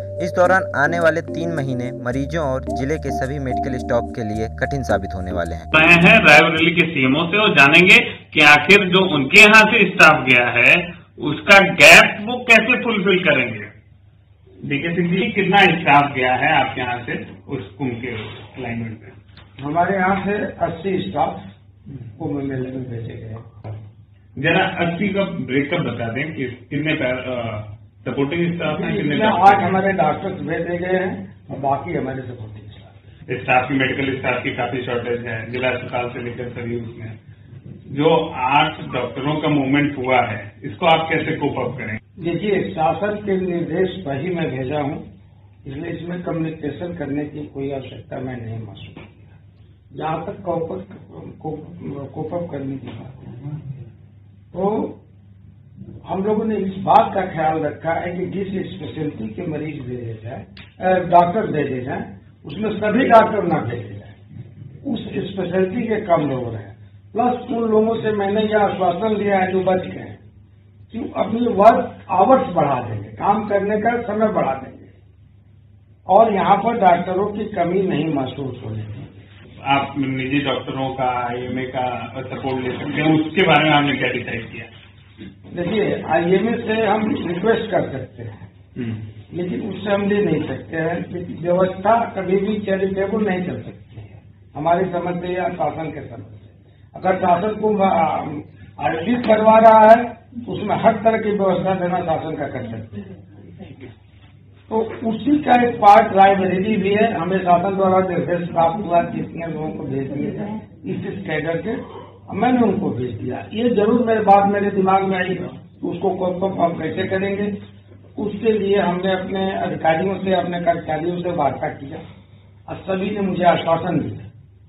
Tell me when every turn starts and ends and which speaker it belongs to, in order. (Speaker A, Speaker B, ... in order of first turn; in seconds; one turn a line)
Speaker A: 0.2-5.7
Speaker B: 5.7-13.7
Speaker B: 14.6-19.2
Speaker C: 19.6-21.4
Speaker C: 22.2-23.5
Speaker B: 24.4-29.8
Speaker C: 28.7-33.0
Speaker B: 33.3-37.2
Speaker B: 37.9-42.0
Speaker C: 42.2-45.0
Speaker C: 45.6-49.3
Speaker C: 49.9-53.4
Speaker C: 54.5-55.0
Speaker C: 56.0-64.2
Speaker C: 64.8-70.2
Speaker C: 70.9-74.9
Speaker C: 76.1-79.1
Speaker B: 79.6-84.7
Speaker C: 85.5-88.5
Speaker B: 88.8-89.0
Speaker C: 89.3-103.0
Speaker C: 104.7-117.5
Speaker C: 118.2-122.0
Speaker C: 122.7-124.3